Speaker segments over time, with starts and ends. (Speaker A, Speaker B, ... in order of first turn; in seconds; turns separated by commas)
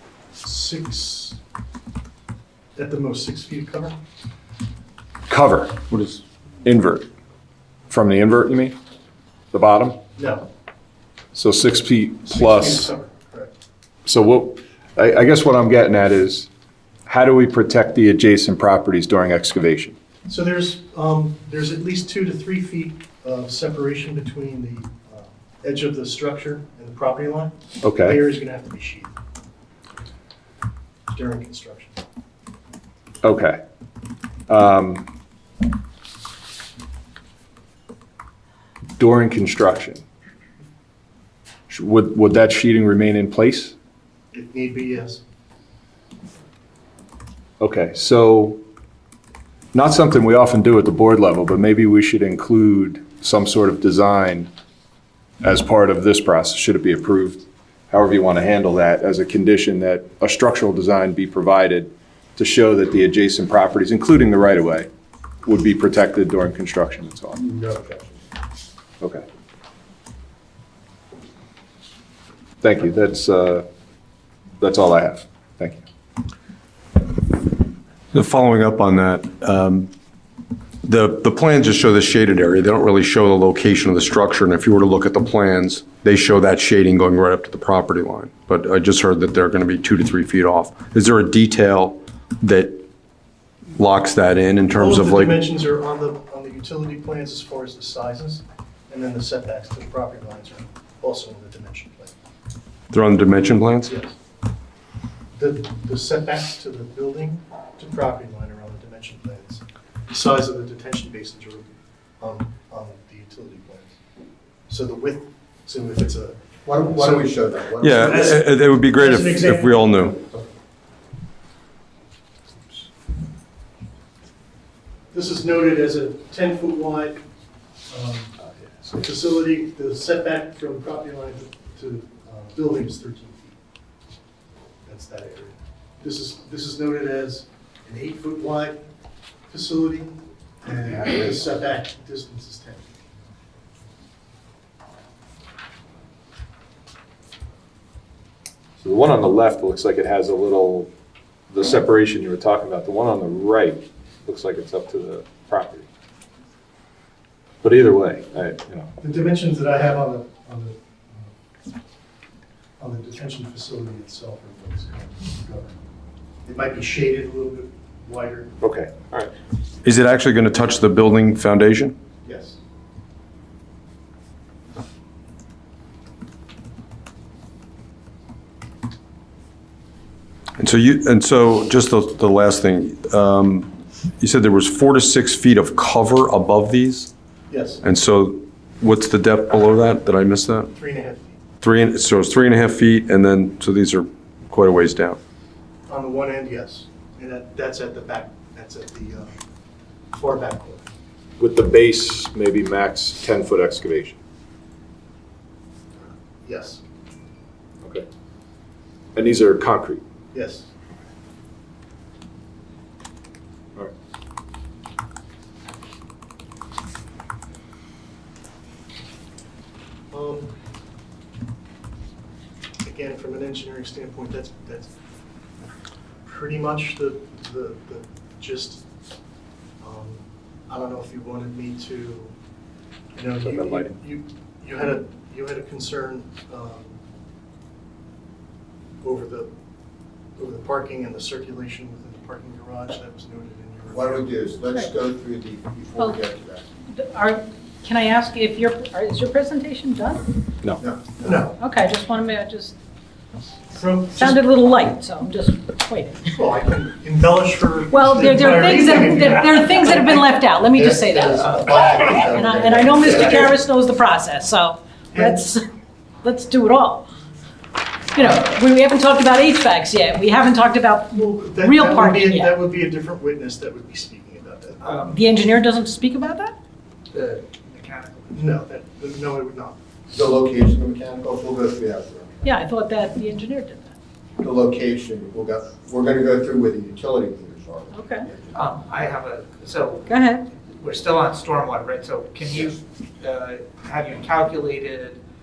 Speaker A: 0.4-1.4, Speaker A: 2.8-4.0, Speaker B: 5.3-5.8, Speaker C: 5.9-6.2, Speaker B: 6.6-7.1, Speaker B: 7.9-8.8, Speaker B: 9.5-10.0, Speaker A: 10.2-10.5, Speaker B: 11.3-12.9, Speaker A: 12.2-13.5, Speaker B: 14.1-16.5, Speaker B: 17.1-19.9, Speaker A: 20.3-29.1, Speaker B: 27.8-28.2, Speaker A: 31.1-32.0, Speaker B: 33.2-33.6, Speaker B: 34.5-35.0, Speaker B: 39.0-40.0, Speaker B: 41.7-43.7, Speaker A: 44.3-45.2, Speaker B: 47.6-48.6, Speaker B: 49.7-54.5, Speaker B: 55.4-64.9, Speaker B: 65.4-67.4, Speaker D: 67.4-68.2, Speaker B: 72.6-73.7, Speaker B: 74.6-75.8, Speaker C: 78.1-79.9, Speaker C: 80.8-92.8, Speaker C: 93.8-95.3, Speaker A: 94.7-102.2, Speaker C: 102.9-103.9, Speaker A: 103.9-104.1, Speaker A: 105.3-114.0, Speaker A: 114.7-116.4, Speaker D: 116.6-118.3, Speaker A: 116.9-117.3, Speaker C: 117.8-120.2, Speaker A: 118.0-119.9, Speaker A: 125.1-127.2, Speaker A: 127.9-128.4, Speaker A: 128.9-133.6, Speaker A: 134.9-138.8, Speaker A: 139.5-142.9, Speaker B: 141.1-141.3, Speaker B: 148.8-150.9, Speaker B: 151.5-155.9, Speaker B: 157.6-158.9, Speaker A: 159.0-161.3, Speaker A: 162.8-165.8, Speaker A: 166.4-168.5, Speaker B: 168.6-169.3, Speaker C: 169.8-171.9, Speaker A: 172.2-172.6, Speaker C: 180.6-187.1, Speaker A: 187.5-187.8, Speaker C: 187.8-190.7, Speaker A: 190.8-191.4, Speaker C: 191.6-195.2, Speaker A: 195.9-199.3, Speaker A: 200.1-200.9, Speaker B: 201.4-204.2, Speaker A: 206.0-206.8, Speaker B: 209.2-210.0, Speaker A: 210.3-210.7, Speaker A: 220.1-220.5, Speaker A: 222.8-224.9, Speaker A: 226.2-228.8, Speaker A: 229.8-232.3, Speaker A: 233.1-237.0, Speaker B: 233.4-234.0, Speaker A: 239.0-239.5, Speaker A: 240.4-244.3, Speaker D: 243.9-246.6, Speaker E: 246.9-250.3, Speaker D: 250.8-251.4, Speaker A: 251.2-251.6, Speaker E: 251.6-252.8, Speaker A: 253.7-254.4, Speaker E: 254.1-256.3, Speaker A: 256.2-260.2, Speaker E: 257.9-265.6, Speaker D: 260.8-263.3, Speaker A: 260.9-263.5, Speaker A: 265.1-265.5, Speaker E: 266.2-267.1, Speaker E: 268.1-272.6, Speaker A: 271.1-275.1, Speaker F: 274.8-275.2, Speaker E: 275.1-276.6, Speaker F: 277.1-278.4, Speaker A: 278.3-279.8, Speaker D: 280.1-282.4, Speaker E: 282.4-283.9, Speaker D: 284.4-288.7, Speaker E: 287.9-288.3, Speaker F: 288.6-295.2, Speaker E: 290.1-290.4, Speaker D: 292.5-292.8